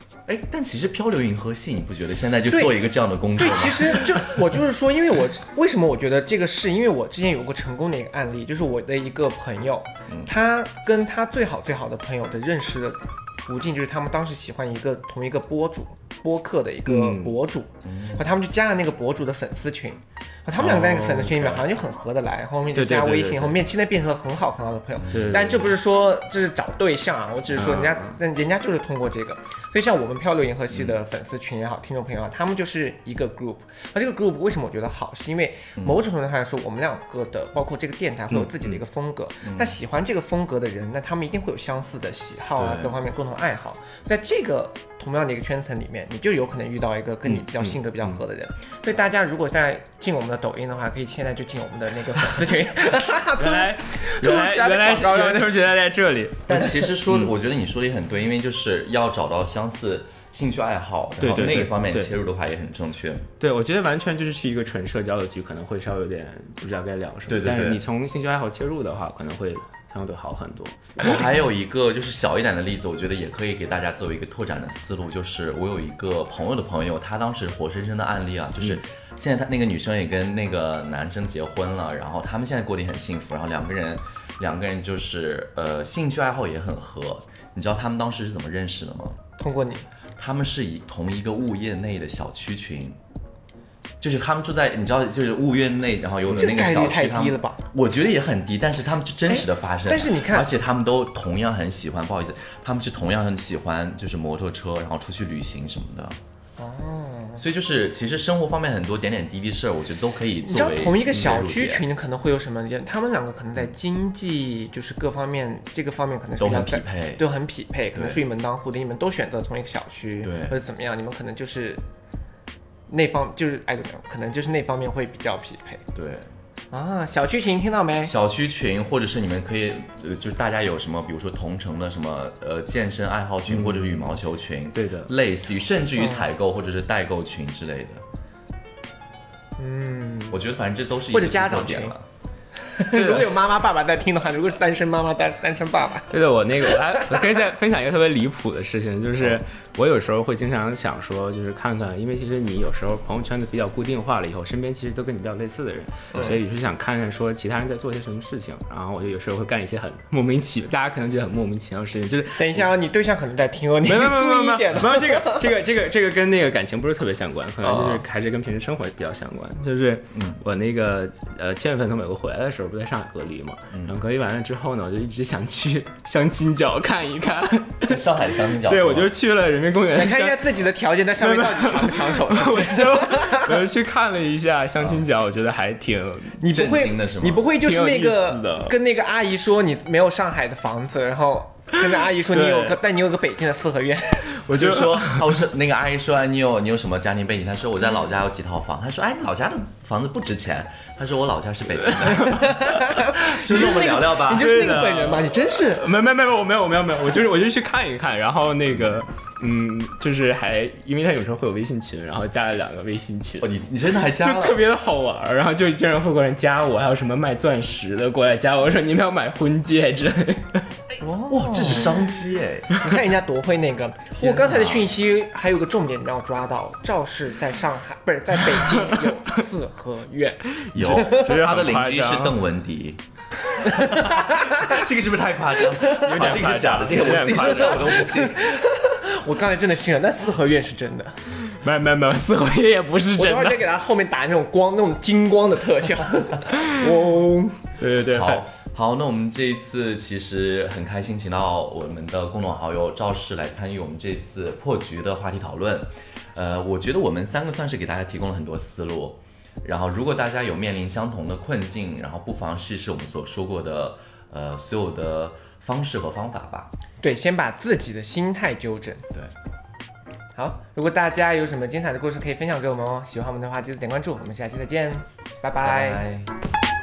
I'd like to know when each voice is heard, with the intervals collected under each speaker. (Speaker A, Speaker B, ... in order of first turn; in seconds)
Speaker A: 0.3-4.4, 17.8-18.3, 25.0-25.4, 39.4-39.8, 42.6-43.0, 56.5-63.3, 67.3-67.8, 71.0-89.2, 90.2-93.0, 94.0-106.2, 107.4-111.8, 116.4-117.2, 117.9-118.2, 120.2-120.6, 126.0-126.3, 128.1-138.0, 140.3-142.0, 167.6-168.0, 170.1-170.4, 173.7-174.0, 177.8-179.1, 186.5-187.5, 194.5-204.8, 213.4-214.6, 221.3-222.7, 224.2-224.9, 230.7-233.0, 233.6-238.6, 248.1-266.7, 275.6-276.3
Speaker B: 2.5-2.8, 3.4-55.6, 89.4-89.9, 96.3-97.6, 99.3-100.5, 106.6-107.4, 110.4-121.8, 122.9-125.8, 126.7-128.1, 136.0-136.3, 139.6-140.4, 141.1-142.0, 142.7-147.4, 162.4-165.5, 179.9-183.7, 186.4-194.3, 202.3-205.9, 221.0-222.1, 222.8-231.3, 233.6-234.7, 235.7-236.5, 237.2-241.3, 243.2-247.6, 267.0-269.1, 270.4-276.1
Speaker C: 16.9-17.4, 20.6-21.7, 22.7-23.6, 25.1-25.7, 27.5-28.2, 38.3-38.6, 47.3-48.2, 53.4-57.3, 61.2-62.1, 63.4-71.3, 133.5-134.2, 134.7-135.1, 142.9-143.3, 146.1-162.7, 163.8-180.4, 181.2-186.4, 187.6-188.8, 192.3-192.8, 194.3-195.4, 202.0-202.6, 204.3-213.6, 214.2-220.7, 228.7-229.1, 230.5-232.4, 235.9-238.0, 241.4-243.7, 246.6-247.0, 247.8-248.4